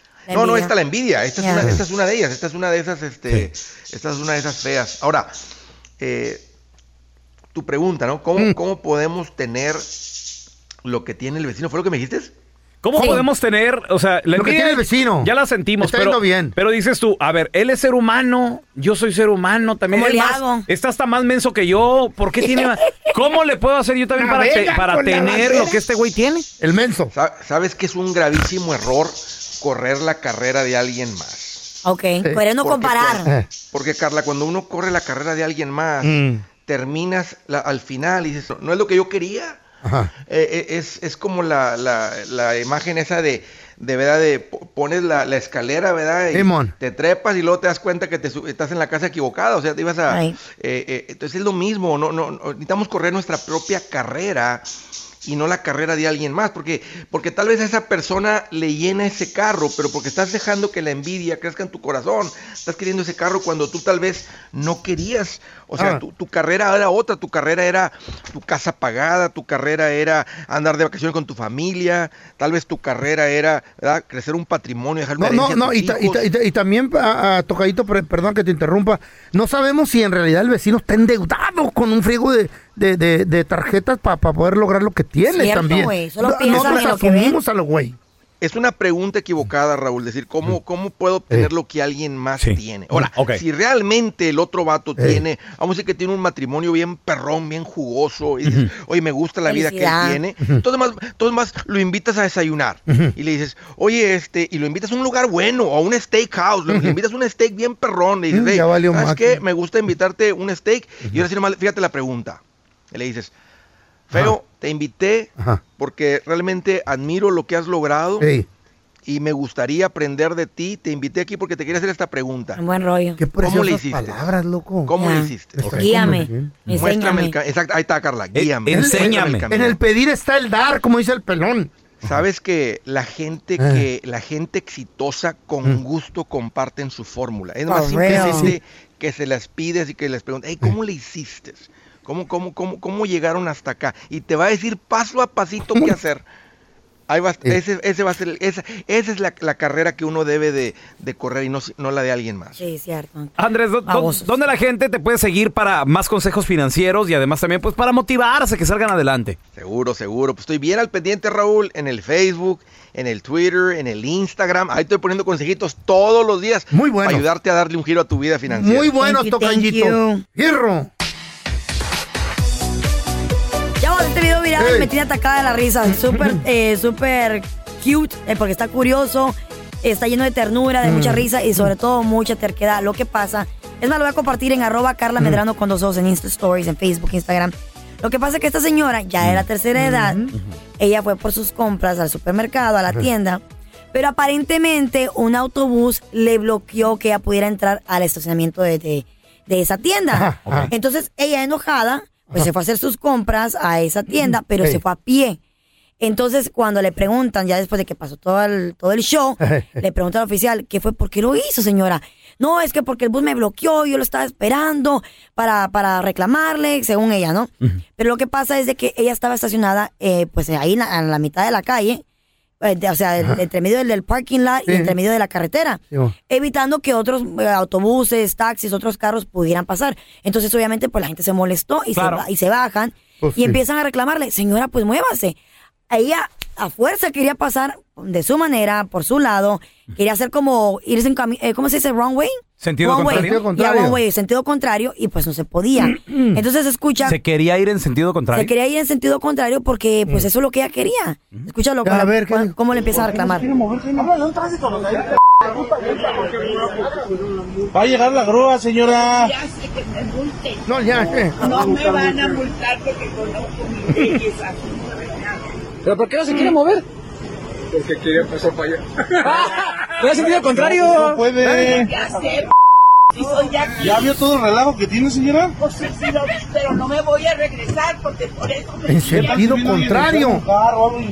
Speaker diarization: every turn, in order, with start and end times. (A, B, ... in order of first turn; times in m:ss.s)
0:00.3-0:00.7 A
0:00.3-0:05.4 B
0:01.4-0:01.7 A
0:06.0-0:06.4 B
0:07.5-0:10.2 B
0:10.8-0:12.3 B
0:12.8-0:26.4 C
0:14.3-0:16.5 D
0:19.9-0:20.6 A
0:22.4-0:22.7 A
0:24.2-0:25.8 D
0:26.6-0:27.1 D
0:27.1-0:31.8 B
0:31.8-0:33.3 A
0:32.5-0:39.6 B
0:36.0-0:36.4 D
0:39.8-0:40.1 D
0:40.3-0:54.6 B
0:46.3-0:46.7 D
0:50.1-0:50.4 A
0:55.2-1:16.2 B
1:15.2-1:28.0 D
1:25.3-1:27.4 A
1:28.4-1:52.4 B
1:32.4-1:33.4 C
1:39.5-1:40.2 A
1:42.9-1:43.1 D
1:48.3-1:49.4 D
1:52.9-1:53.3 B
1:54.1-1:58.3 B
1:58.2-1:58.5 D
1:59.0-2:02.6 B
2:02.6-2:03.2 A
2:03.2-2:04.9 D
2:03.4-2:04.3 B
2:04.9-2:06.2 B
2:05.0-2:07.3 A
2:05.6-2:06.7 D
2:06.7-2:09.8 B
2:08.3-2:09.5 C
2:08.7-2:11.7 D
2:12.0-2:26.2 B
2:13.6-2:13.8 D
2:17.7-2:18.5 A
2:18.1-2:18.6 D
2:27.1-2:32.6 B
2:32.6-2:33.3 A
2:33.4-2:39.4 C
2:33.8-2:34.2 A
2:39.5-2:48.9 B
2:46.7-2:47.2 D
2:48.5-2:50.9 D
2:48.9-2:50.2 A
2:53.8-3:10.2 A
2:54.6-2:54.9 D
2:56.1-2:56.4 D
3:00.8-3:01.6 D
3:09.8-3:10.3 D
3:10.8-3:13.4 A
3:13.9-3:25.4 A
3:20.1-3:20.7 D
3:20.4-3:20.7 C
3:24.3-3:24.8 D
3:26.0-3:42.0 A
3:29.4-3:29.8 D
3:42.6-3:55.4 A
3:44.7-3:44.9 D
3:51.9-3:52.2 C
3:53.2-3:53.6 D
3:55.9-4:07.2 A
4:02.6-4:03.4 C
4:03.0-4:04.0 D
4:06.0-4:06.4 D
4:07.0-4:08.5 C
4:08.3-4:13.5 A
4:11.8-4:12.5 D
4:16.2-4:16.5 E
4:18.9-4:25.4 E
4:20.7-4:21.4 D
4:25.8-4:26.8 F
4:29.2-4:31.4 F
4:31.4-4:31.7 D
4:31.7-4:32.5 E
4:33.1-4:34.3 E
4:35.6-4:39.6 E
4:38.9-4:40.4 D